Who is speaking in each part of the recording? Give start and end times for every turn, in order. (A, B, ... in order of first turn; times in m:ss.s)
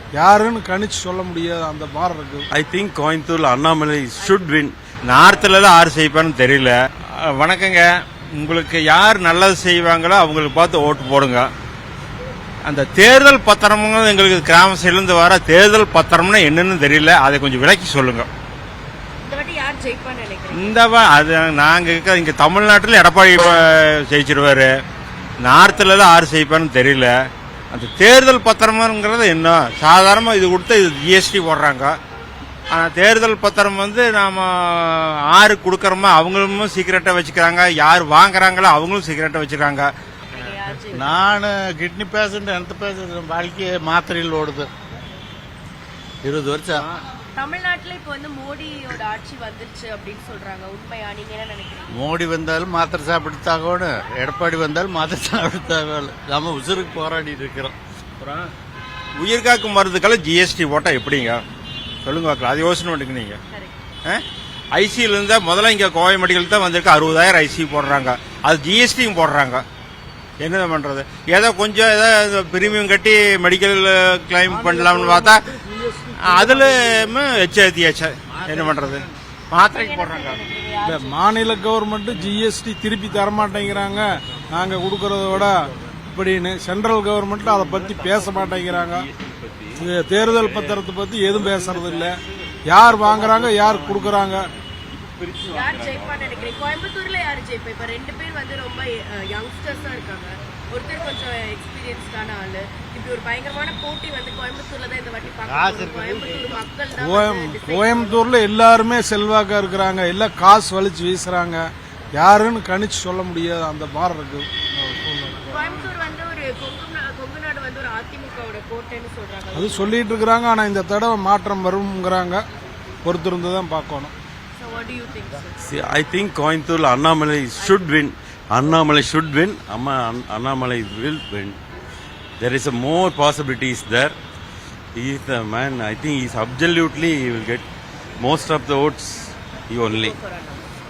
0:00.2-0:02.5 A
0:02.5-0:04.8 B
0:05.1-0:06.7 C
0:07.2-0:11.4 C
0:12.6-0:18.3 C
0:19.2-0:20.7 D
0:20.5-0:24.7 C
0:25.4-0:27.1 C
0:27.7-0:31.9 C
0:32.7-0:39.9 C
0:40.3-0:41.2 D
0:40.9-0:44.7 E
0:46.2-0:46.8 E
0:46.7-0:47.0 C
0:47.4-0:51.9 D
0:52.0-0:57.7 E
0:58.2-0:58.5 C
0:59.2-1:01.4 C
1:02.0-1:03.4 C
1:04.7-1:09.6 C
1:10.4-1:15.4 C
1:14.5-1:17.0 A
1:16.3-1:20.4 C
1:19.7-1:21.2 D
1:20.8-1:25.6 A
1:26.1-1:29.1 A
1:29.2-1:29.7 B
1:29.8-1:34.5 A
1:35.2-1:35.8 B
1:35.5-1:48.2 D
1:45.4-1:46.5 E
1:47.0-1:55.4 A
1:55.4-2:00.1 D
1:59.5-2:02.4 A
2:03.0-2:04.1 A
2:04.6-2:05.6 D
2:05.6-2:11.6 B
2:12.4-2:14.1 B
2:14.9-2:17.6 B
2:18.2-2:20.2 B
2:20.0-2:20.6 D